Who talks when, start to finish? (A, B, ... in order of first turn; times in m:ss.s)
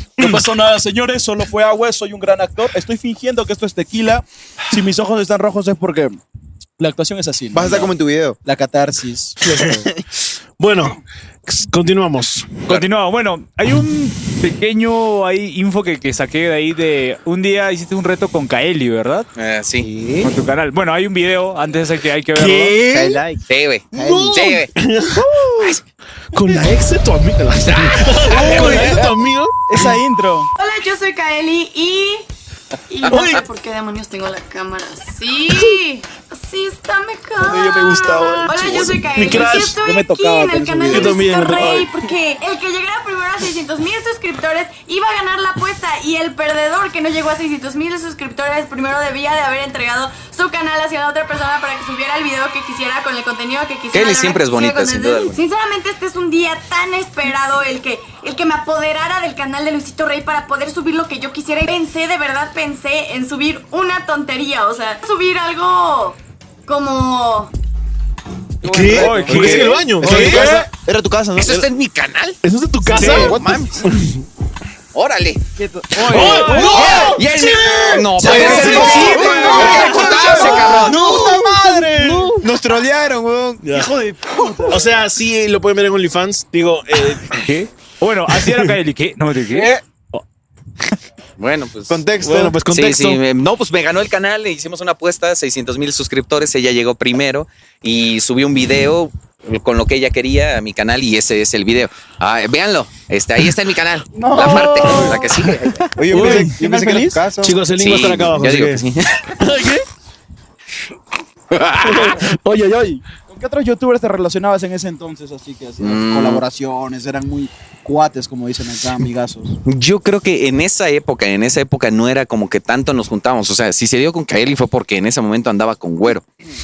0:00.2-0:06.2 A
0:06.8-0:07.9 A
0:07.5-0:08.4 B
0:08.4-0:09.4 A
0:09.4-0:09.8 C
0:09.6-0:10.0 B
0:10.6-0:12.5 C
0:12.7-0:19.3 D
0:19.4-0:19.9 E
0:19.8-0:20.4 B
0:20.2-0:22.8 D
0:22.3-0:23.2 C
0:22.9-0:24.6 B
0:23.5-0:24.7 E
0:23.9-0:25.3 C
0:26.3-0:29.9 C
0:27.7-0:28.9 E
0:28.3-0:29.0 A
0:29.7-0:30.5 A
0:30.6-0:32.2 F
0:32.9-1:07.5 F
0:33.0-0:33.4 C
0:37.4-0:41.3 A
0:38.2-0:38.9 B
0:39.1-0:39.8 C
0:40.9-0:42.0 C
0:53.9-0:55.4 E
1:08.6-1:11.6 B
1:08.6-1:10.5 C
1:08.7-1:10.6 A
1:08.9-1:10.4 D
1:11.4-1:12.4 E
1:12.4-1:14.2 C
1:12.9-1:13.7 B
1:13.0-1:13.9 E
1:14.9-1:15.4 E
1:15.6-1:22.4 A
1:16.0-1:22.4 C
1:16.7-1:21.0 E
1:18.2-1:23.6 B
1:18.8-1:19.7 D
1:23.6-1:23.9 C
1:23.7-1:25.0 A
1:24.7-1:27.4 C
1:27.3-1:30.2 D
1:28.3-1:28.7 C
1:29.5-1:29.8 B
1:31.4-1:32.1 E
1:31.9-1:32.6 B
1:32.2-1:33.2 C
1:32.7-1:45.8 E
1:44.1-1:45.3 A
1:44.6-1:47.6 B
1:46.0-1:47.2 A
1:46.1-1:46.5 C
1:47.4-1:48.8 C
1:47.8-1:49.4 E
1:49.4-1:49.8 C
1:51.5-1:52.2 E
1:51.8-1:53.0 C
1:53.3-1:59.6 A
1:55.8-1:56.4 E
1:59.6-2:06.2 E